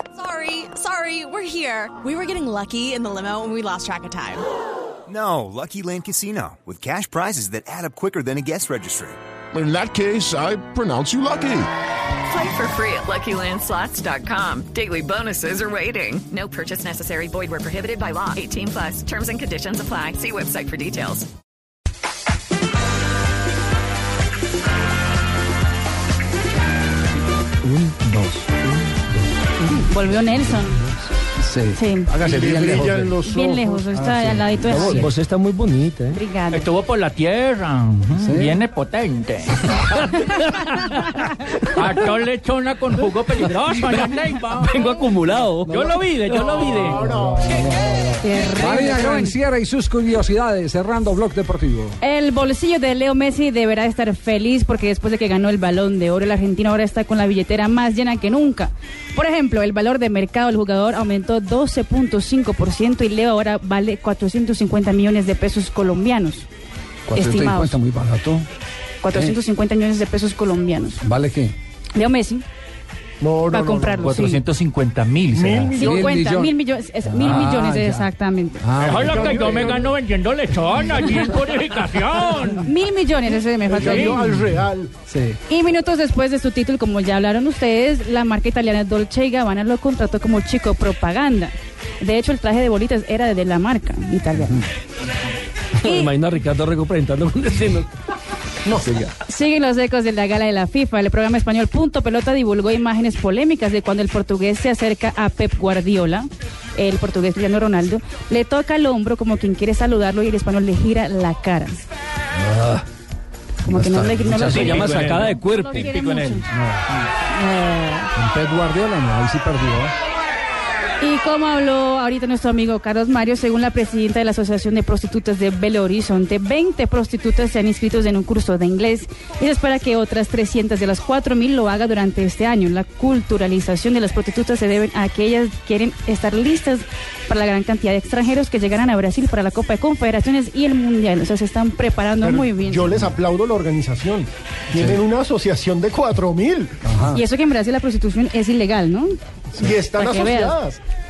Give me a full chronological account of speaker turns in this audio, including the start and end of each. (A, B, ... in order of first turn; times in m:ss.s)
0:00.2-0:04.4 A
0:05.1-0:09.2 B
0:09.5-0:11.7 C
0:12.3-0:21.3 D
0:29.9-0:30.8 E
0:31.3-0:33.2 F
0:31.7-0:32.1 E
0:32.2-0:34.0 G
0:33.3-0:35.1 E
0:33.9-0:35.0 F
0:34.7-0:36.2 H
0:36.1-0:36.7 E
0:36.5-0:39.8 I
0:38.2-0:38.6 F
0:39.8-0:41.3 H
0:41.6-0:45.0 I
0:44.6-0:47.0 H
0:45.6-0:47.1 I
0:46.7-0:52.0 F
0:47.0-0:47.6 G
0:48.2-0:49.4 E
0:52.0-1:06.5 E
1:07.1-1:08.5 F
1:07.2-1:07.8 E
1:09.0-1:11.0 E
1:09.1-1:09.4 F
1:11.0-1:11.5 F
1:12.0-1:12.4 E
1:13.2-1:14.2 G
1:13.5-1:14.4 E
1:14.0-1:15.8 I
1:15.3-1:16.0 G
1:15.8-1:18.6 E
1:15.8-1:19.9 F
1:18.8-1:22.7 I
1:19.0-1:19.9 G
1:22.6-1:24.3 E
1:23.7-1:24.9 G
1:23.8-1:24.3 I
1:25.1-1:25.4 F
1:25.5-1:34.7 E
1:35.8-1:37.9 H
1:35.8-1:36.1 E
1:38.6-1:38.9 G
1:39.2-1:51.8 E
1:52.4-1:52.8 F
1:53.6-1:55.2 F
1:53.6-1:56.5 E
1:54.5-1:56.0 H
1:54.5-1:55.3 I
1:55.9-1:56.4 I
1:56.4-1:56.9 F
1:57.3-1:58.1 E
1:58.2-2:00.0 F
2:01.0-2:22.9 E
2:22.2-2:26.7 G
2:24.7-2:25.0 F
2:26.8-2:27.2 F
2:27.1-2:29.1 E
2:29.6-2:30.8 G
2:29.9-2:30.6 E